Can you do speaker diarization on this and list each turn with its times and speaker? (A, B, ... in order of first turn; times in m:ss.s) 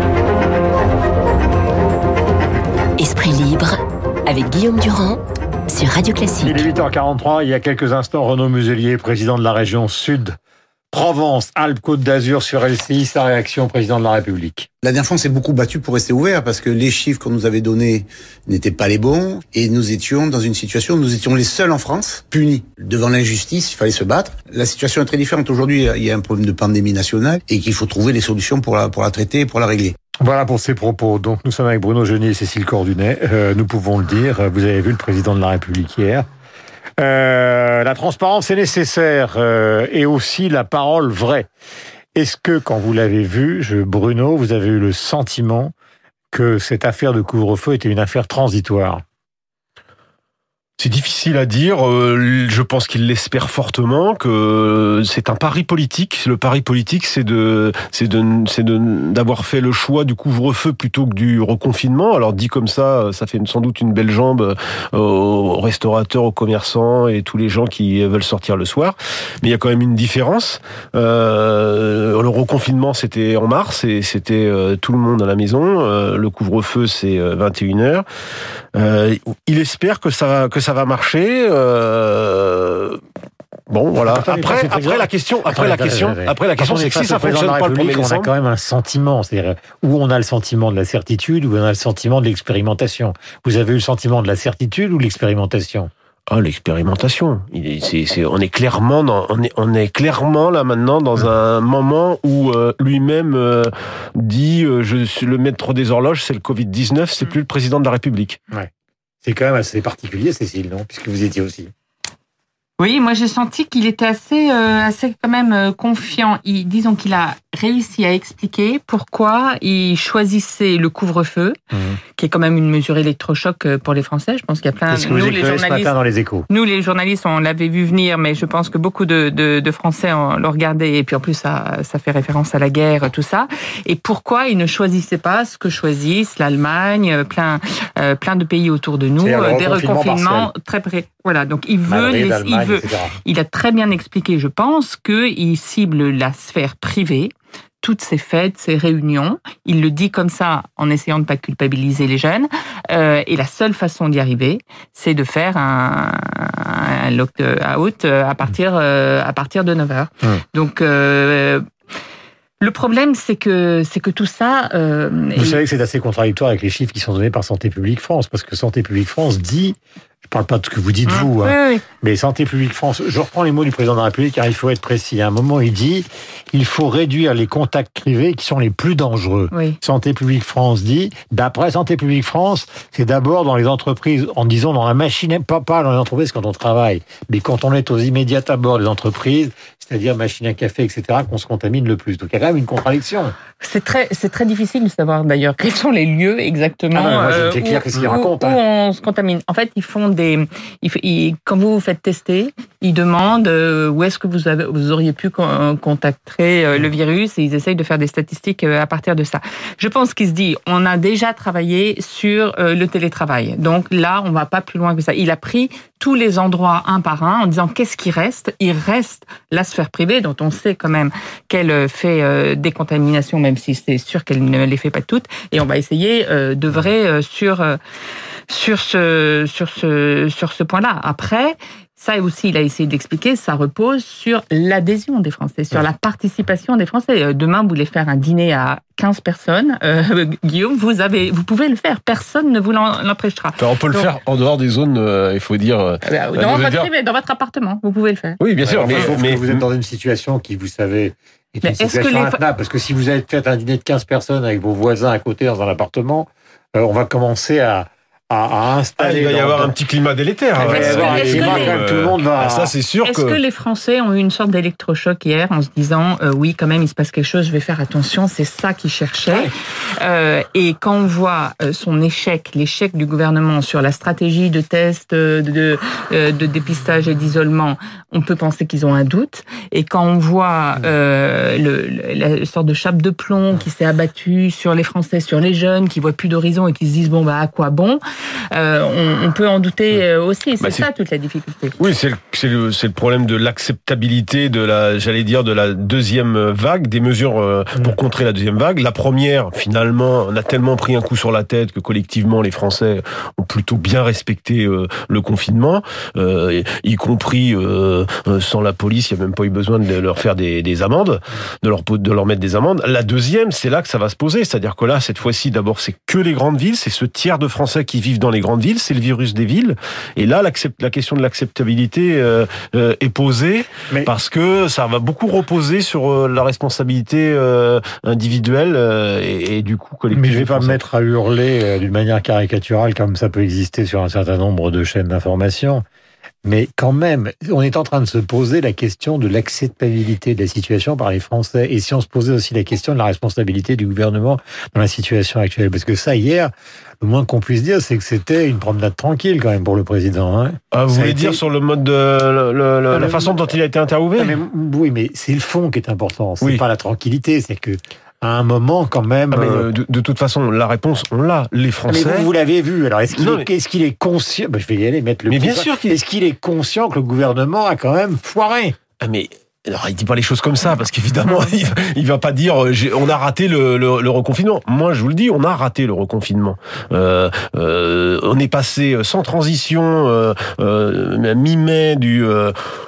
0:03.0-0:06.7 A
0:06.4-0:10.4 B
0:10.9-0:14.7 B
0:14.8-0:30.0 C
0:30.2-0:36.3 B
0:37.0-0:41.5 B
0:42.2-0:45.7 B
0:46.3-0:49.0 B
0:50.8-1:18.0 D
1:18.8-1:23.0 D
1:23.7-1:28.3 D
1:24.0-1:35.9 B
1:36.3-1:48.4 D
1:49.2-1:51.7 B
1:52.8-2:01.6 E
2:01.7-2:02.0 B
2:02.2-2:05.9 E
2:04.9-2:06.5 B
2:06.5-2:41.6 E
2:19.2-2:20.5 B
2:21.9-2:23.2 B
2:42.6-2:45.6 E
2:45.4-3:13.4 B
2:51.1-2:51.8 E
2:59.5-2:59.8 E
3:13.6-3:47.8 E
3:16.9-3:18.6 B
3:48.5-4:04.1 E
4:03.6-4:06.9 D
4:06.0-4:08.4 E
4:08.4-4:09.6 D
4:08.6-4:19.7 B
4:11.6-4:12.4 E
4:19.0-4:23.4 D
4:20.6-4:22.7 B
4:20.6-4:21.8 E
4:23.0-4:48.0 E
4:29.3-4:29.5 B
4:48.5-4:51.8 E
4:50.6-4:50.9 D
4:51.8-5:30.8 D
5:30.1-5:35.8 B
5:36.4-5:51.4 B
5:50.7-5:54.4 D
5:52.9-5:53.4 B
5:54.2-5:59.7 B
5:59.3-6:02.3 D
6:01.9-6:08.8 B
6:03.2-6:03.5 D
6:05.3-6:06.0 D
6:09.0-6:22.5 D